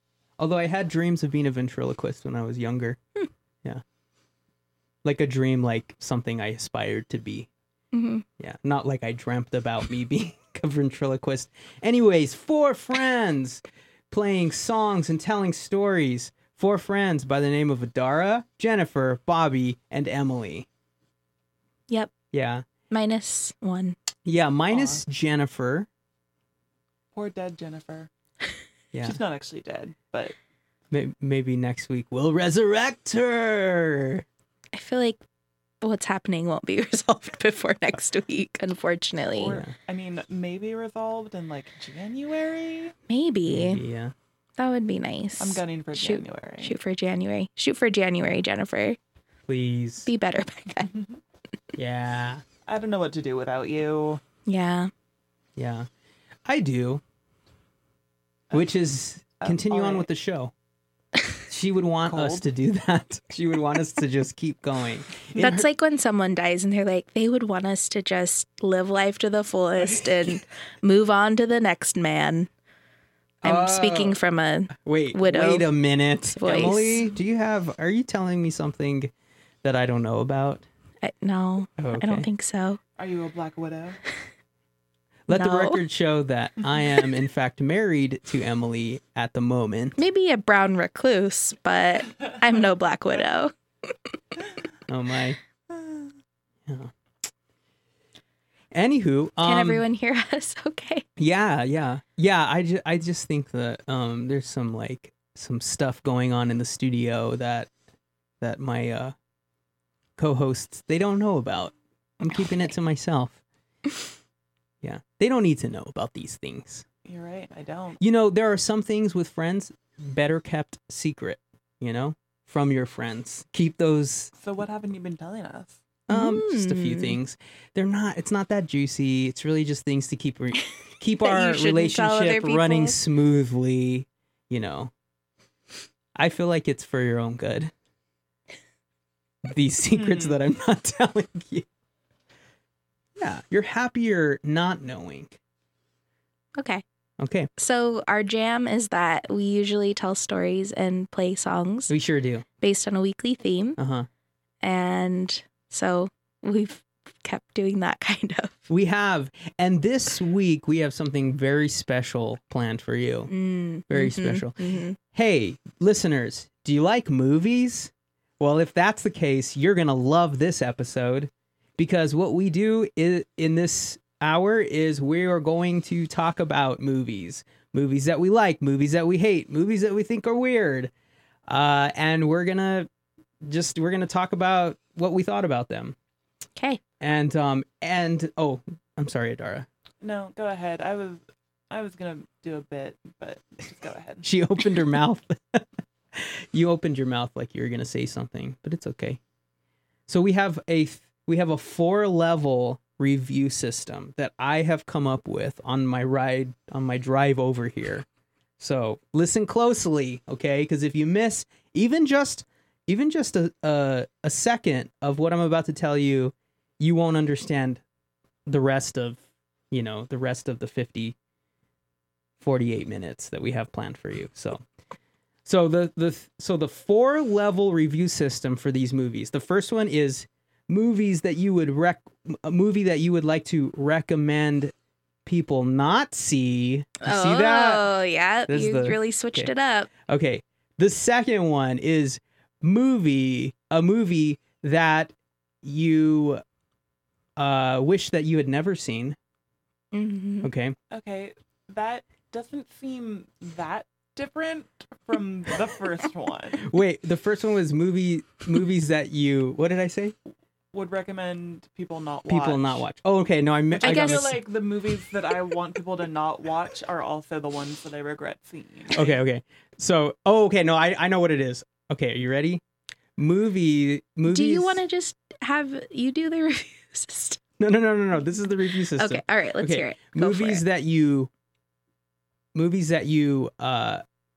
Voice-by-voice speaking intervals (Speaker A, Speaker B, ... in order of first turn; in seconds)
Speaker A: 0.4-3.0, 5.0-7.5, 8.4-20.7, 22.3-22.6, 24.2-25.9, 28.9-29.2, 30.9-34.3, 39.5-39.7, 43.5-44.1, 49.5-50.1, 51.8-52.4, 55.6-55.9, 56.5-57.0, 58.5-60.5, 61.5-65.7, 73.4-74.2, 74.7-79.1, 79.6-80.7, 81.8-82.3, 85.3-90.0, 94.9-95.4, 96.7-96.9, 98.7-99.8, 101.2-107.7, 108.4-109.2, 110.2-113.4, 114.8-116.8, 118.0-124.3, 126.1-134.9, 136.2-137.7, 139.4-141.7, 143.2-145.4, 147.2-147.5, 151.9-152.4, 153.8-154.1, 158.7-163.3, 163.9-180.9, 181.5-182.9, 183.4-186.0, 187.0-189.7, 194.2-199.2, 200.1-208.1, 208.6-217.8, 218.5-221.2, 222.4-224.6, 225.5-234.7, 235.2-237.9, 238.5-239.5, 240.1-246.4, 247.4-249.2, 250.4-250.8, 256.6-260.1, 262.3-264.4, 268.9-272.6, 273.2-274.8, 277.6-281.3, 282.5-284.0
Speaker B: 7.9-8.2, 22.9-24.0, 34.7-35.2, 35.8-39.6, 43.1-43.8, 44.6-49.0, 50.1-50.9, 54.5-54.9, 65.4-72.5, 73.4-75.7, 76.4-77.1, 81.0-82.8, 85.3-85.8, 90.0-93.5, 99.4-101.1, 126.1-127.2, 131.2-133.0, 146.6-146.8, 147.6-151.9, 152.6-153.8, 154.6-158.7, 163.3-165.0, 237.0-239.9, 249.9-250.5, 263.8-264.3, 274.3-277.4, 278.9-280.6
Speaker C: 24.7-25.0, 27.1-28.1, 29.0-30.4, 39.3-43.0, 45.4-46.8, 52.7-54.2, 59.4-60.1, 62.0-62.5, 69.8-70.1, 83.0-84.0, 117.0-118.0, 124.3-125.8, 139.9-140.4, 190.0-194.3, 250.9-256.7, 260.7-262.8, 263.8-269.2